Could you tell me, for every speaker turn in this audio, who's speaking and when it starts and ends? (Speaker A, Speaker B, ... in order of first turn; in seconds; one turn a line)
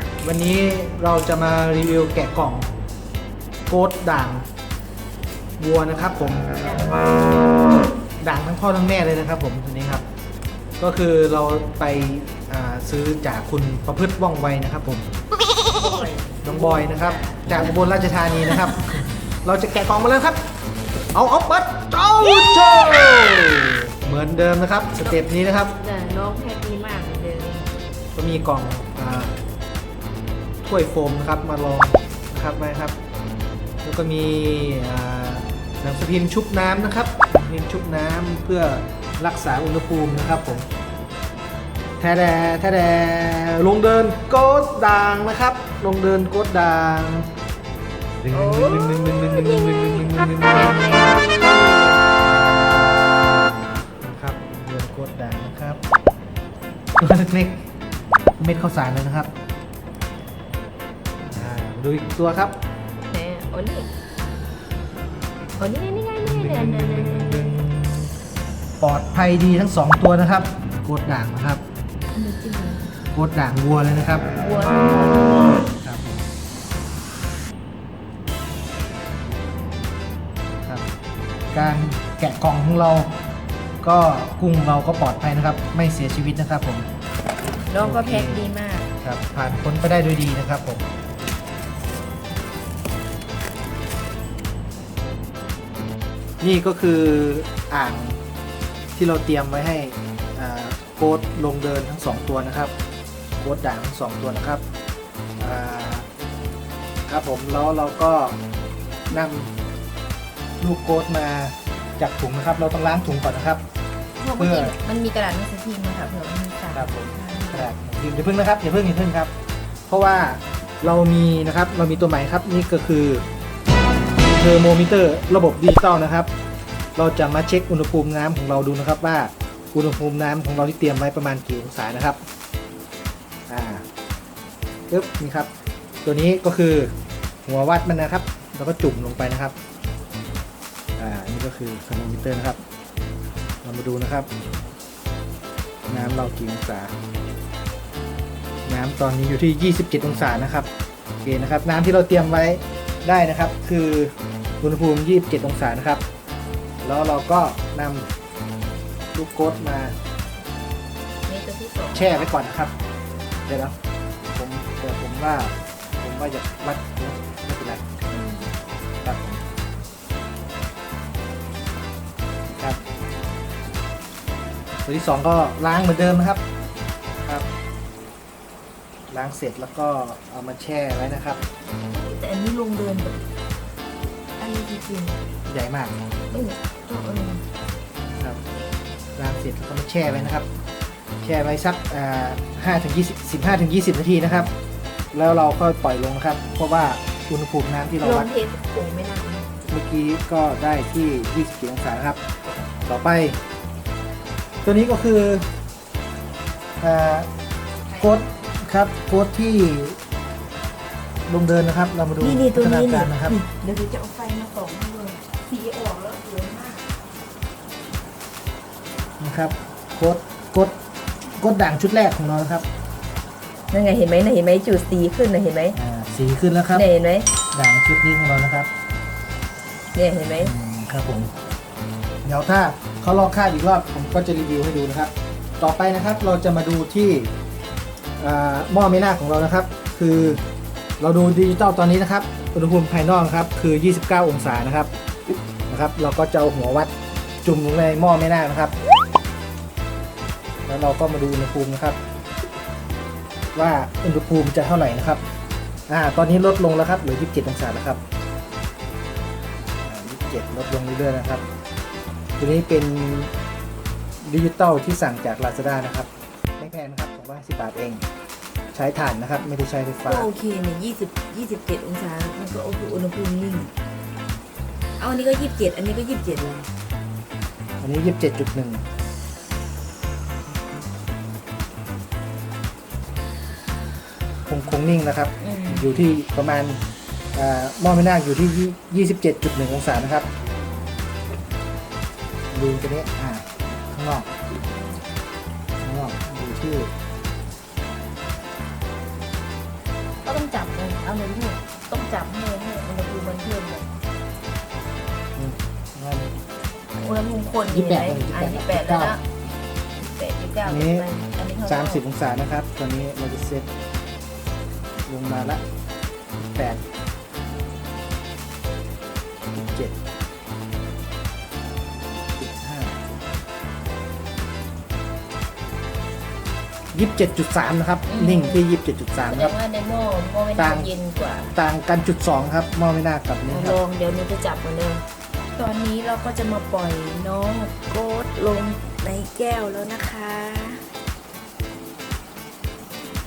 Speaker A: 0.2-2.7
Speaker A: 3.7-4.5
Speaker A: 5.6-6.6
Speaker A: 8.2-10.0
Speaker A: 10.8-15.1
Speaker B: 15.6-17.7
Speaker A: 16.4-20.4
Speaker A: 21.1-25.8
Speaker B: 25.0-27.7
Speaker A: 28.1-29.4
Speaker A: 30.6-33.0
Speaker A: 33.8-40.7
Speaker B: 40.1-40.7
Speaker A: 42.0-47.3
Speaker A: 48.2-51.1
Speaker B: 48.3-52.1
Speaker A: 52.2-55.8
Speaker A: 57.0-57.7
Speaker A: 58.4-59.3
Speaker A: 61.3-62.6
Speaker B: 63.1-63.9
Speaker B: 65.6-67.6
Speaker A: 66.2-68.1
Speaker A: 68.8-71.6
Speaker B: 72.1-73.0
Speaker A: 73.1-74.3
Speaker B: 74.3-75.6
Speaker A: 75.8-76.2
Speaker A: 81.5-83.2
Speaker B: 81.6-81.9
Speaker A: 83.8-86.9
Speaker B: 87.7-88.9
Speaker A: 87.8-88.5
Speaker A: 89.0-90.8
Speaker A: 96.4-98.2
Speaker A: 99.0-102.7
Speaker A: 103.4-104.6
Speaker A: 105.4-106.1
Speaker A: 107.1-108.4
Speaker A: 109.1-109.5
Speaker A: 110.6-113.6
Speaker B: 114.2-117.7
Speaker A: 114.4-114.7
Speaker A: 116.7-119.3
Speaker A: 119.9-123.2
Speaker A: 124.3-126.3
Speaker A: 127.0-132.2
Speaker A: 133.5-133.8
Speaker A: 134.9-135.5
Speaker A: 136.0-136.9
Speaker A: 137.5-139.6
Speaker A: 141.0-142.6
Speaker A: 143.6-144.3
Speaker A: 145.9-146.9
Speaker A: 148.7-150.7
Speaker A: 151.2-156.0
Speaker A: 156.8-158.1
Speaker A: 159.1-159.9
Speaker B: 161.3-162.3
Speaker A: 161.9-162.7
Speaker A: 163.5-163.8
Speaker A: 164.3-167.8
Speaker B: 168.1-168.5
Speaker A: 169.0-169.4
Speaker A: 172.5-172.8
Speaker A: 174.9-176.4
Speaker A: 179.1-181.4
Speaker B: 181.9-183.2
Speaker B: 184.4-185.2
Speaker A: 185.5-185.9
Speaker B: 186.3-187.4
Speaker A: 189.2-190.5
Speaker A: 191.2-194.5
Speaker A: 195.1-198.3
Speaker B: 198.0-199.7
Speaker A: 199.7-202.2
Speaker A: 202.9-203.4
Speaker A: 204.6-205.5
Speaker A: 206.8-207.3
Speaker A: 208.0-210.0
Speaker A: 211.3-213.4
Speaker B: 212.2-216.8
Speaker A: 219.2-220.8
Speaker A: 221.4-222.7
Speaker B: 223.7-225.8
Speaker A: 225.7-226.9
Speaker B: 226.7-227.3
Speaker A: 227.5-228.7
Speaker B: 229.9-230.5
Speaker A: 230.4-231.3
Speaker A: 232.2-237.3
Speaker A: 238.2-240.4
Speaker A: 241.0-244.9
Speaker A: 245.7-246.9
Speaker A: 247.4-248.8
Speaker A: 250.7-252.0
Speaker A: 253.6-255.2
Speaker A: 255.9-258.0
Speaker A: 259.8-261.4
Speaker A: 262.4-263.3
Speaker A: 264.2-268.1
Speaker A: 268.7-270.3
Speaker B: 270.0-273.7
Speaker B: 275.0-276.7
Speaker A: 277.8-278.8
Speaker A: 284.5-286.8
Speaker B: 285.4-286.1
Speaker A: 287.3-290.3
Speaker A: 292.5-294.3
Speaker A: 295.8-296.9
Speaker B: 300.2-303.9
Speaker A: 305.4-306.3
Speaker B: 307.0-309.2
Speaker A: 307.7-309.1
Speaker B: 310.0-312.0
Speaker A: 310.6-311.1
Speaker A: 311.6-313.7
Speaker A: 315.1-315.6
Speaker A: 316.4-316.8
Speaker A: 319.5-320.0
Speaker A: 322.4-323.0
Speaker A: 326.9-329.5
Speaker B: 328.1-328.6
Speaker B: 329.3-331.6
Speaker A: 330.6-330.9
Speaker A: 331.6-333.8
Speaker B: 333.5-340.9